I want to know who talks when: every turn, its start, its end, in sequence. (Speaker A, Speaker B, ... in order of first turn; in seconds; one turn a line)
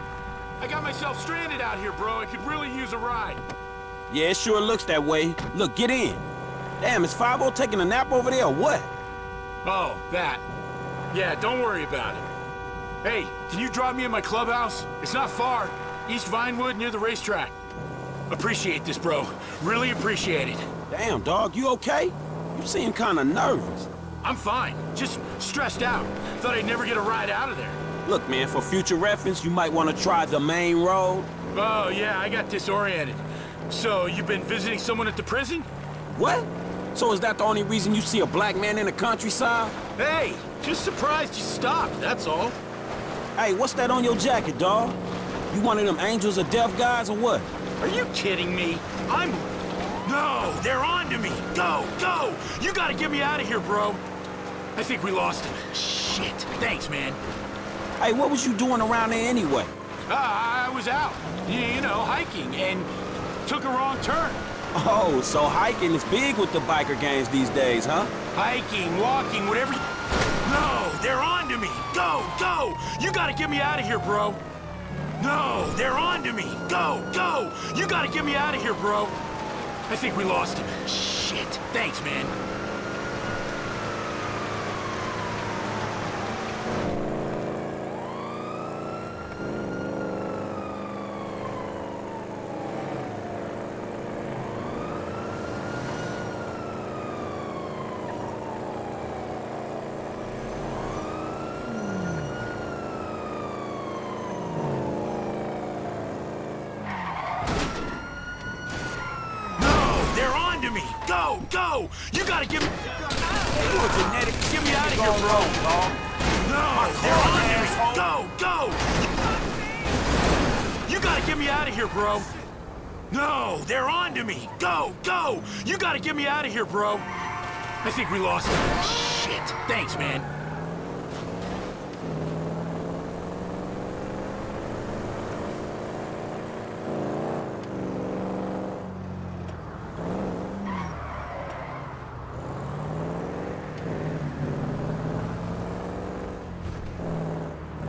Speaker A: 0.6-3.4
Speaker B: 4.1-6.2
Speaker B: 6.8-8.9
Speaker A: 9.6-10.4
Speaker A: 11.1-12.3
Speaker A: 13.0-17.6
Speaker A: 18.3-20.6
Speaker B: 20.9-23.9
Speaker A: 24.2-27.8
Speaker B: 28.1-31.3
Speaker A: 31.5-35.7
Speaker B: 36.1-39.8
Speaker A: 40.0-42.6
Speaker B: 43.4-45.0
Speaker B: 45.5-47.5
Speaker A: 47.8-49.4
Speaker A: 50.0-54.0
Speaker A: 54.7-57.2
Speaker B: 58.0-59.7
Speaker A: 60.1-62.9
Speaker A: 63.4-64.4
Speaker B: 64.7-68.1
Speaker A: 68.3-69.8
Speaker A: 70.4-74.4
Speaker A: 75.2-79.2
Speaker A: 79.9-82.3
Speaker A: 109.5-115.6
Speaker B: 113.3-116.0
Speaker A: 116.4-119.1
Speaker B: 116.7-118.1
Speaker A: 120.8-122.3
Speaker A: 123.1-127.1
Speaker A: 127.8-130.3